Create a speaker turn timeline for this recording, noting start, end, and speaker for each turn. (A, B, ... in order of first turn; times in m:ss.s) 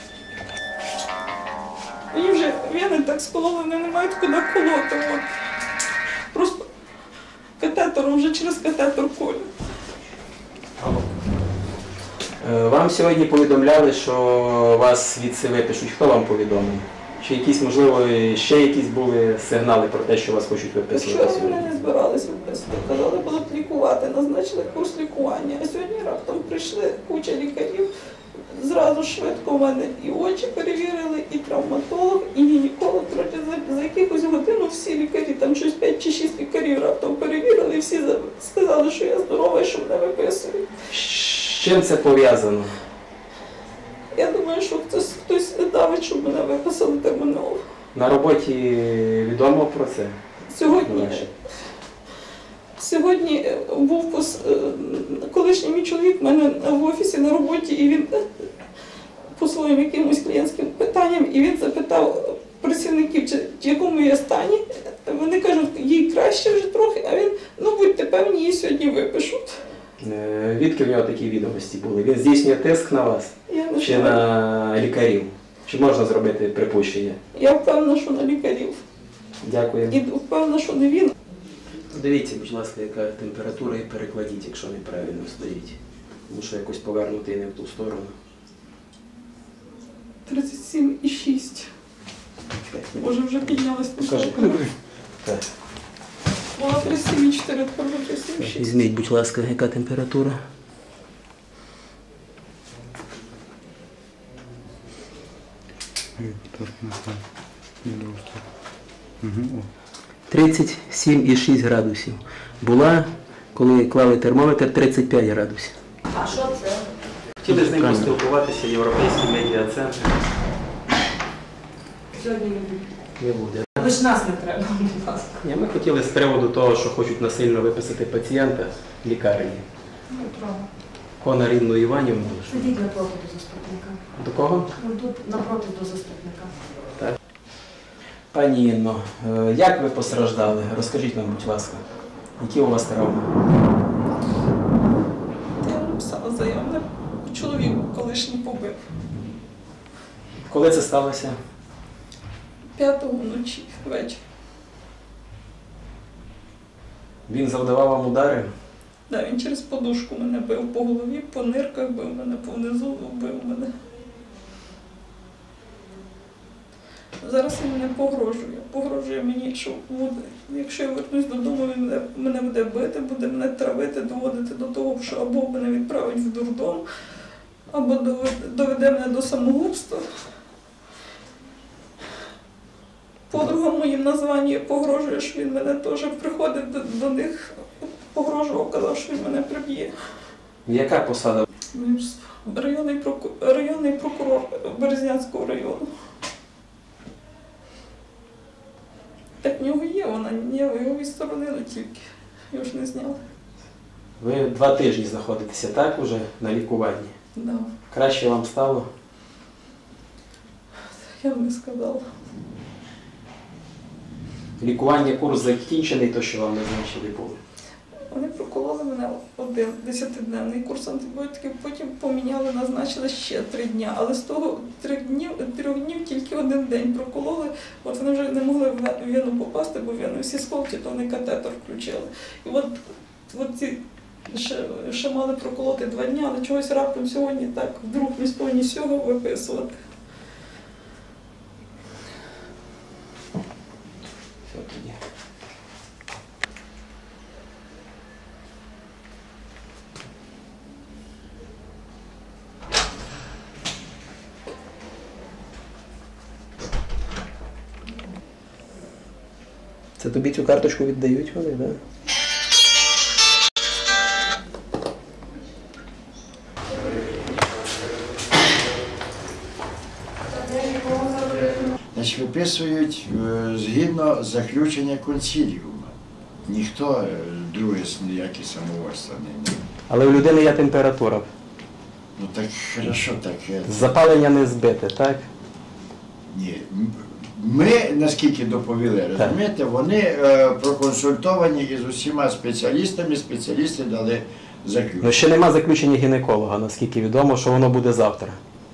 0:02.1-0:05.3 A
0:06.3-0:06.6 A
0:07.6-0:09.5 A
0:12.4-0:21.6 B
0:20.9-0:27.9 A
0:28.5-0:40.7 A
0:40.9-0:42.7 B
0:44.1-0:47.6 A
0:47.9-0:51.3 B
0:50.5-0:51.3 A
0:52.8-0:58.2 A
0:59.4-1:09.6 A
1:10.0-1:17.2 B
1:13.5-1:14.2 A
1:17.3-1:18.8 A
1:19.4-1:20.0 B
1:19.9-1:21.1 A
1:21.9-1:28.2 B
1:30.3-1:31.7 A
1:32.6-1:34.7 B
1:33.0-1:34.6 A
1:36.6-1:38.8 A
1:38.4-1:40.4 B
1:46.2-1:47.2 C
1:47.8-1:48.4 C
1:49.2-1:49.7 C
1:50.3-1:55.8 B
1:56.1-1:56.8 D
1:57.4-2:00.1 B
1:57.5-1:58.1 E
2:02.1-2:02.9 D
2:03.2-2:04.0 B
2:03.8-2:05.4 D
2:05.3-2:09.6 B
2:10.1-2:10.6 A
2:11.2-2:12.8 B
2:12.6-2:14.0 D
2:14.2-2:14.8 B
2:14.8-2:16.5 D
2:18.3-2:21.8 B
2:22.4-2:23.2 B
2:25.6-2:28.8 A
2:30.5-2:31.4 B
2:32.8-2:34.2 A
2:37.3-2:38.5 B
2:39.1-2:43.7 A
2:47.2-2:56.8 A
2:57.7-3:00.0 A
3:03.3-3:07.6 A
3:08.1-3:09.9 A
3:10.7-3:11.5 B
3:11.7-3:15.9 A
3:19.4-3:23.2 A
3:24.2-3:27.1 B
3:27.4-3:27.7 A
3:27.9-3:28.9 B
3:31.0-3:32.0 A
3:34.6-3:37.4 B
3:38.1-3:52.8 A
3:53.3-3:59.7 A
4:04.5-4:05.0 B
4:20.0-4:21.8 B
4:30.9-4:31.3 E
4:31.9-4:35.9 E
4:36.5-4:39.6 E
4:39.9-4:41.3 B
4:42.2-4:43.9 E
4:43.7-4:45.3 B
4:46.3-4:55.2 E
4:55.0-4:58.4 B